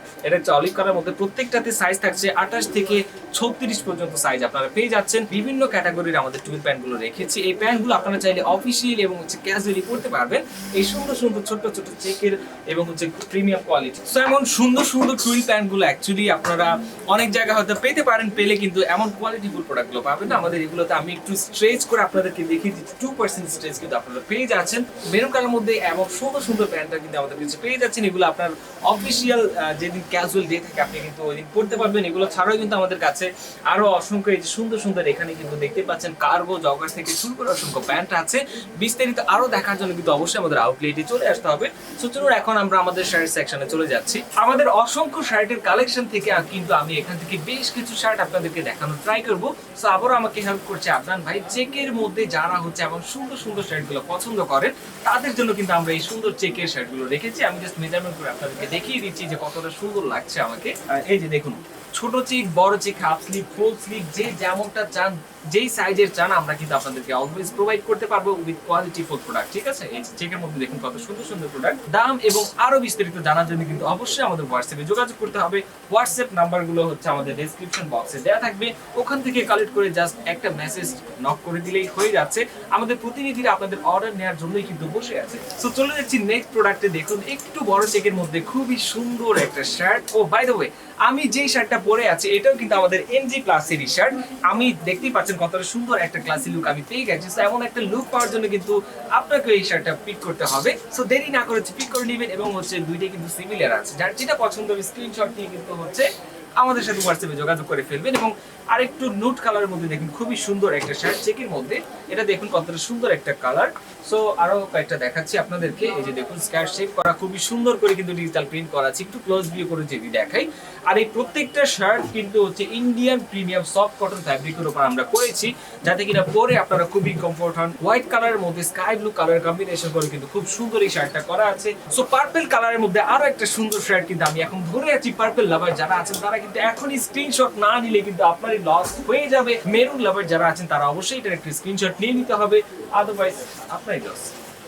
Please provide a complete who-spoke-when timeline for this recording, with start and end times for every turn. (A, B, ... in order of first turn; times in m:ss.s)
0:00.3-2:24.4 A